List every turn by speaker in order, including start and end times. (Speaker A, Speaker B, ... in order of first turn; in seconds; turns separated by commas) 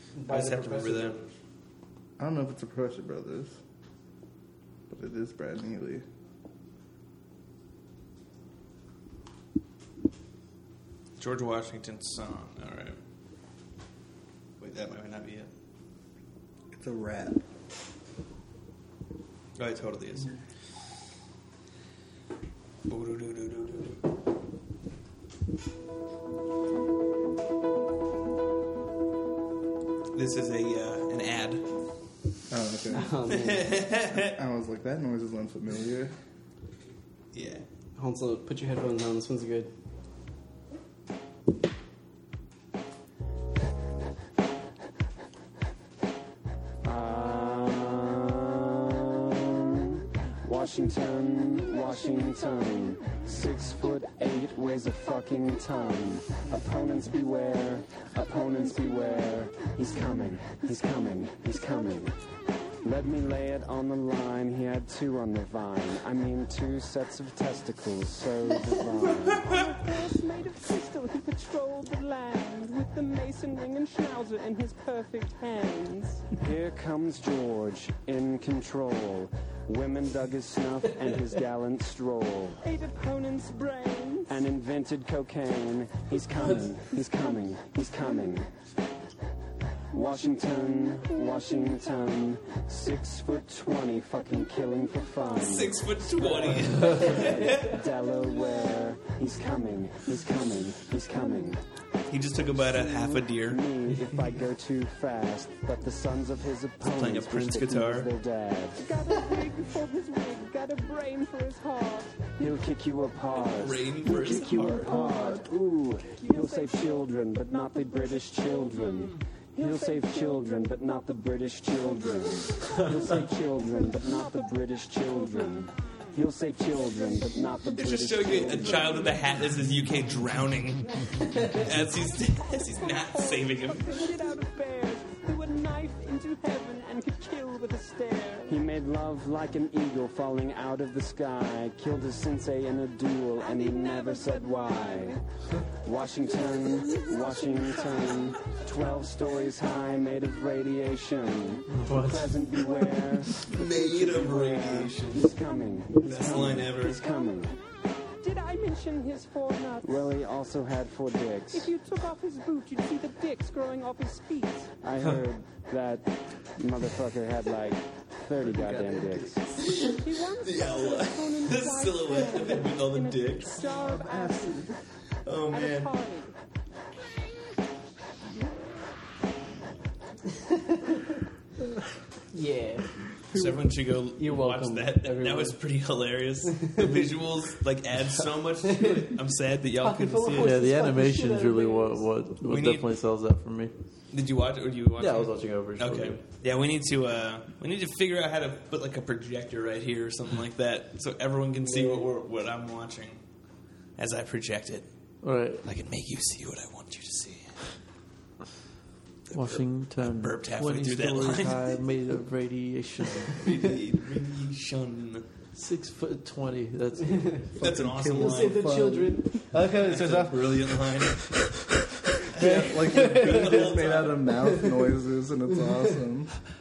Speaker A: 0.2-1.3, Speaker B: 0.3-1.2, Speaker C: 2.2-3.5, Speaker C: 4.9-6.0, Speaker B: 11.2-13.0, Speaker B: 14.6-15.5, Speaker C: 16.8-17.4, Speaker B: 19.6-20.3, Speaker B: 22.9-24.0, Speaker B: 30.1-31.6, Speaker C: 32.5-33.1, Speaker A: 32.9-33.8, Speaker B: 33.3-34.4, Speaker C: 34.1-36.1, Speaker B: 37.3-37.6, Speaker A: 38.0-39.7, Speaker D: 46.8-48.5, Speaker D: 50.4-62.1, Speaker D: 62.8-69.7, Speaker E: 69.3-76.3, Speaker D: 76.3-82.6, Speaker E: 82.6-84.4, Speaker D: 84.3-88.5, Speaker D: 89.9-95.8, Speaker B: 95.4-97.7, Speaker D: 96.8-101.6, Speaker B: 102.1-104.1, Speaker D: 102.6-108.8, Speaker B: 106.8-108.1, Speaker E: 108.8-112.3, Speaker D: 112.3-129.2, Speaker B: 113.4-115.1, Speaker C: 114.9-115.2, Speaker E: 116.2-116.7, Speaker B: 127.8-134.1, Speaker E: 132.8-138.6, Speaker D: 138.5-145.2, Speaker E: 143.6-145.1, Speaker D: 145.8-157.6, Speaker E: 146.9-148.1, Speaker F: 151.7-152.3, Speaker B: 153.4-155.3, Speaker B: 156.0-157.0, Speaker E: 158.2-159.9, Speaker D: 159.8-161.7, Speaker E: 161.5-164.7, Speaker D: 164.8-169.4, Speaker C: 168.4-169.7, Speaker B: 169.6-173.6, Speaker E: 169.6-174.7, Speaker C: 173.7-174.7, Speaker B: 175.2-176.0, Speaker E: 175.5-176.3, Speaker A: 180.5-180.9, Speaker A: 182.3-182.9, Speaker C: 183.3-183.6, Speaker B: 183.3-190.6, Speaker A: 184.2-185.6, Speaker A: 186.5-187.1, Speaker A: 188.6-189.1, Speaker A: 189.8-192.1, Speaker F: 190.3-193.7, Speaker B: 192.4-192.9, Speaker B: 194.1-203.2, Speaker F: 195.0-196.2, Speaker A: 201.6-202.1, Speaker B: 204.0-204.8, Speaker F: 205.2-205.6, Speaker B: 205.6-207.6, Speaker B: 209.3-211.6, Speaker F: 209.3-213.4, Speaker B: 213.3-215.2, Speaker F: 215.5-217.4, Speaker C: 217.6-219.4, Speaker B: 217.6-218.6, Speaker A: 218.2-220.6, Speaker B: 219.8-221.5, Speaker B: 222.3-224.3, Speaker C: 222.3-226.4, Speaker A: 222.3-223.7, Speaker A: 224.4-224.7